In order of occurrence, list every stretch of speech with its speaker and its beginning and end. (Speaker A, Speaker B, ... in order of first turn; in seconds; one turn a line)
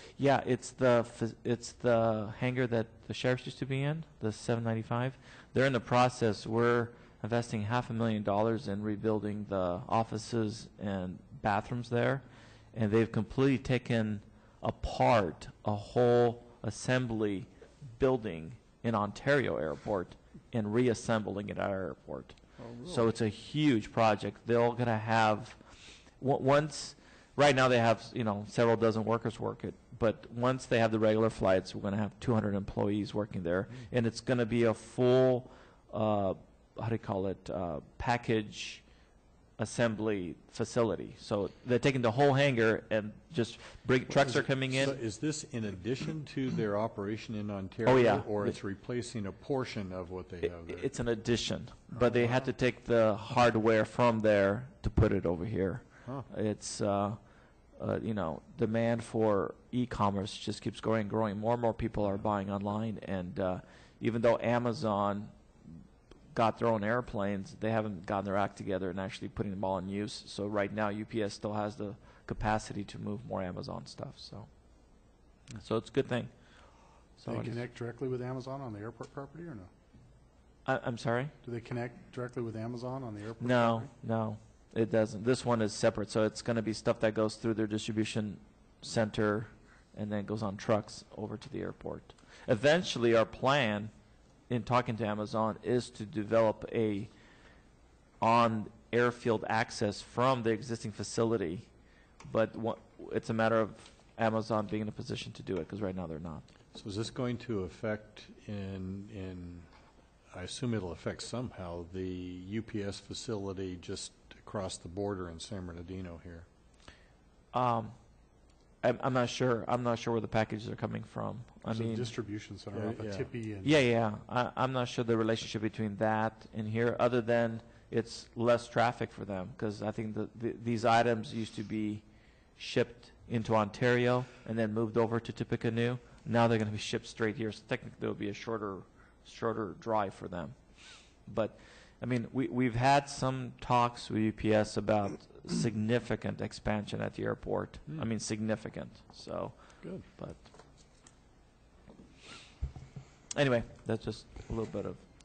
Speaker A: 0.2-25.6
Speaker B: 22.6-23.1
Speaker A: 26.2-38.9
Speaker A: 39.6-45.0
Speaker B: 44.1-50.9
Speaker A: 47.9-48.6
Speaker A: 50.4-57.2
Speaker B: 52.0-52.5
Speaker A: 57.8-74.5
Speaker A: 75.6-76.3
Speaker A: 77.2-77.6
Speaker C: 77.3-79.7
Speaker A: 80.7-81.3
Speaker C: 81.4-83.9
Speaker A: 83.4-93.9
Speaker A: 94.5-97.1
Speaker A: 98.2-101.7
Speaker A: 102.3-106.4
Speaker B: 106.7-109.7
Speaker B: 110.3-116.5
Speaker A: 117.5-118.0
Speaker A: 118.8-122.1
Speaker C: 121.7-123.8
Speaker B: 122.7-123.3
Speaker A: 123.6-132.1
Speaker A: 132.6-140.6
Speaker A: 141.2-150.4
Speaker A: 153.3-155.0